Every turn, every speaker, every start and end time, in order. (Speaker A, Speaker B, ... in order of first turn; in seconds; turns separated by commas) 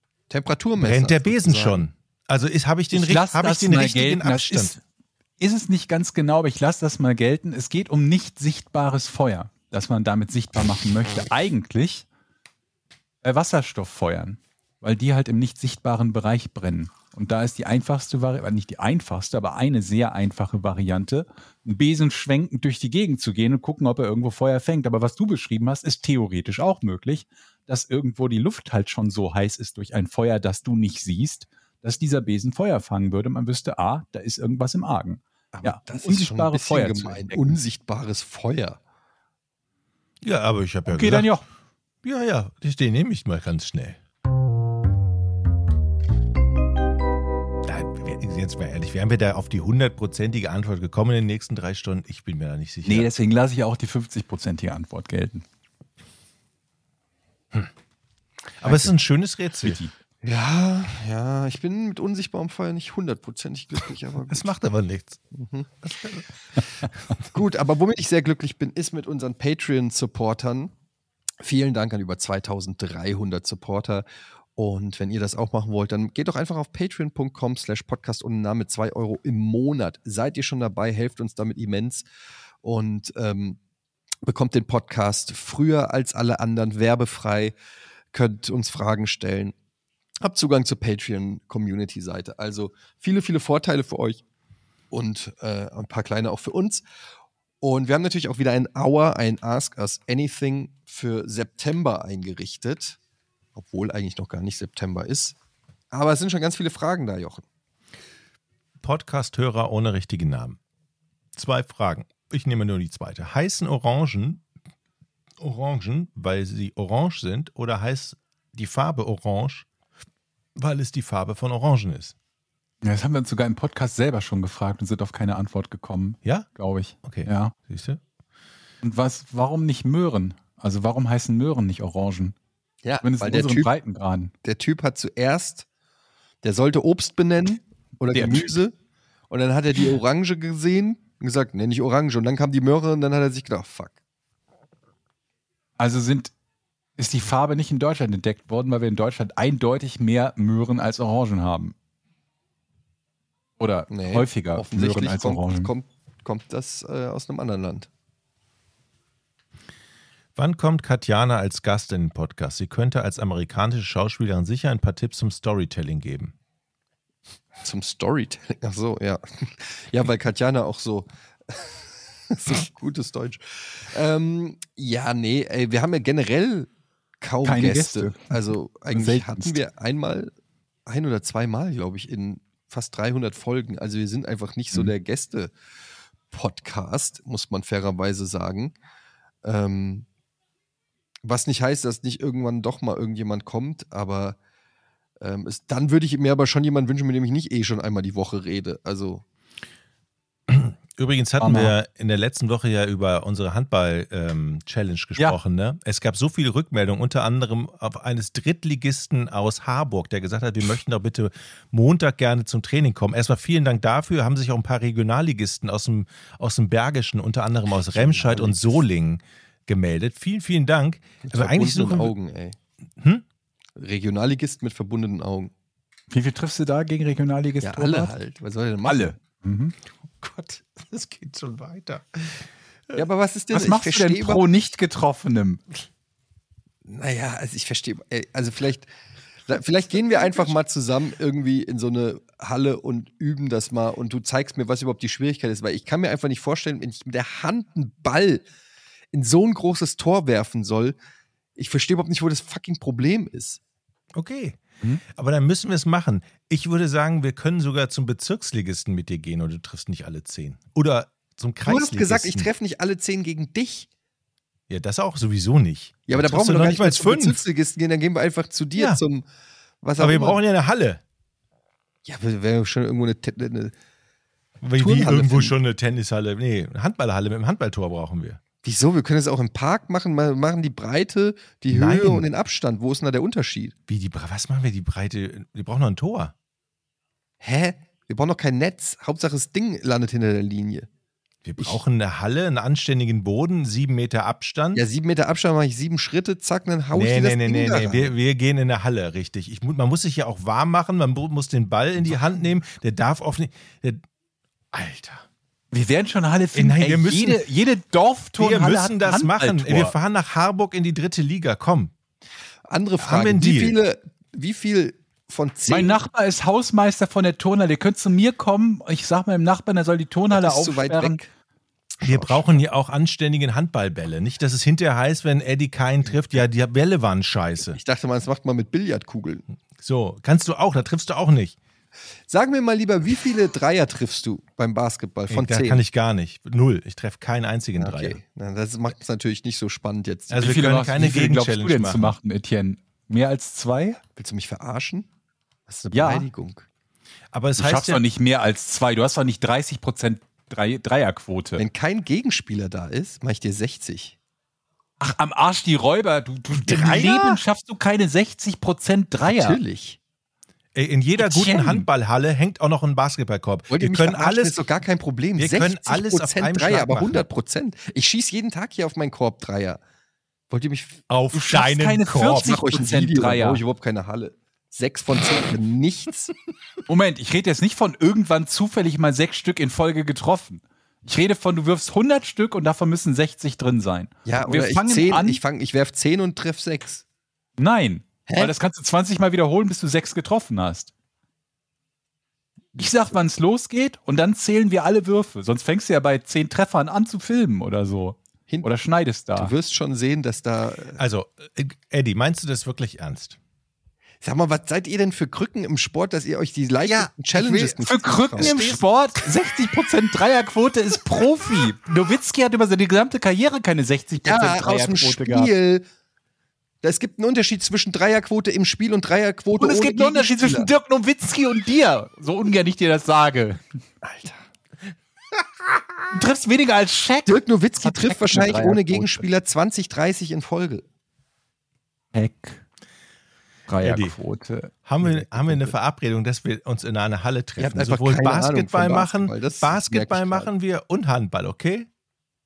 Speaker A: 0.3-1.9, Speaker B: 0.8-4.8, Speaker C: 2.9-4.8, Speaker C: 5.4-12.1, Speaker C: 13.2-37.6, Speaker A: 35.5-38.8, Speaker B: 40.2-41.3, Speaker C: 40.9-41.4, Speaker B: 42.0-44.0, Speaker B: 47.6-53.1, Speaker C: 52.8-55.4, Speaker B: 58.6-59.8, Speaker C: 58.6-58.9, Speaker C: 59.6-59.9, Speaker A: 60.2-64.5, Speaker B: 64.3-65.2, Speaker A: 65.3-65.7, Speaker B: 65.8-66.2, Speaker A: 67.3-70.7, Speaker A: 71.4-82.0, Speaker A: 82.6-83.6, Speaker A: 84.2-87.5, Speaker A: 88.1-89.5, Speaker A: 90.2-94.2, Speaker A: 94.9-96.8, Speaker A: 97.6-103.0, Speaker A: 103.5-105.3, Speaker A: 105.9-107.4, Speaker B: 108.8-110.6, Speaker B: 111.3-114.4, Speaker B: 115.4-119.7, Speaker B: 120.5-122.1, Speaker C: 122.8-127.5, Speaker B: 127.0-128.0, Speaker C: 128.8-132.3, Speaker A: 132.8-133.7, Speaker C: 133.0-134.3, Speaker A: 134.4-135.7, Speaker A: 136.4-138.7, Speaker C: 138.1-138.6, Speaker A: 139.3-144.0, Speaker C: 145.8-146.3, Speaker C: 147.0-151.7, Speaker C: 153.6-155.7, Speaker A: 153.9-157.9, Speaker B: 160.3-166.3, Speaker A: 167.6-180.3, Speaker C: 177.4-179.6, Speaker A: 180.8-185.5, Speaker A: 186.3-188.7, Speaker A: 189.4-190.1, Speaker A: 191.2-194.4, Speaker A: 195.2-199.2, Speaker B: 200.5-222.1, Speaker C: 201.4-201.7, Speaker A: 217.9-218.8, Speaker A: 221.2-222.6, Speaker A: 223.8-225.5, Speaker C: 226.1-228.1, Speaker A: 227.6-229.2, Speaker C: 228.8-229.7, Speaker B: 230.2-233.0, Speaker A: 232.9-234.4, Speaker C: 233.5-235.6, Speaker A: 236.8-238.9, Speaker A: 239.5-248.4, Speaker A: 249.1-251.0, Speaker A: 251.6-253.6, Speaker B: 254.1-262.5, Speaker A: 261.6-263.9, Speaker B: 264.7-267.4, Speaker A: 266.1-269.2, Speaker A: 269.8-270.4, Speaker B: 270.0-271.0, Speaker A: 272.0-273.7, Speaker B: 274.6-278.4, Speaker A: 274.8-275.5, Speaker A: 278.6-283.7, Speaker B: 281.7-282.2, Speaker B: 283.9-286.3, Speaker A: 287.4-290.9, Speaker B: 291.4-294.8, Speaker A: 294.7-298.1, Speaker B: 296.9-304.0, Speaker B: 304.7-305.2, Speaker C: 305.7-309.9, Speaker B: 306.5-307.4, Speaker B: 308.4-311.9, Speaker A: 312.7-315.9, Speaker B: 313.0-313.8, Speaker C: 315.7-321.2, Speaker A: 320.3-321.3, Speaker A: 322.0-322.6, Speaker B: 322.0-327.8, Speaker A: 327.7-329.4, Speaker B: 329.8-331.6, Speaker A: 332.3-335.8, Speaker B: 335.3-338.2, Speaker A: 337.8-340.6, Speaker B: 340.3-342.1, Speaker C: 340.4-344.0, Speaker A: 344.2-345.1, Speaker A: 345.7-346.7, Speaker C: 345.9-346.3, Speaker B: 347.3-348.0, Speaker C: 347.6-351.6, Speaker A: 351.6-354.1, Speaker C: 355.0-359.6, Speaker B: 356.6-357.4, Speaker A: 359.2-360.0, Speaker B: 360.7-364.6, Speaker C: 361.2-361.9, Speaker A: 363.7-369.8, Speaker B: 365.4-367.2, Speaker A: 370.5-371.0, Speaker B: 371.1-372.6, Speaker C: 371.3-373.6, Speaker A: 372.4-376.3, Speaker C: 376.9-385.4, Speaker A: 384.2-387.0, Speaker C: 387.6-390.9, Speaker A: 388.2-388.5, Speaker C: 392.8-399.5, Speaker A: 399.3-401.0, Speaker B: 401.0-403.4, Speaker A: 404.2-408.8, Speaker C: 407.3-415.5, Speaker B: 408.4-408.8, Speaker A: 414.2-415.9, Speaker A: 416.8-420.7, Speaker C: 419.6-423.6, Speaker A: 424.0-424.4, Speaker C: 426.1-429.3, Speaker A: 427.2-430.8, Speaker C: 432.1-432.6, Speaker C: 433.7-435.7, Speaker B: 433.8-434.1, Speaker B: 434.9-441.9, Speaker A: 437.6-440.5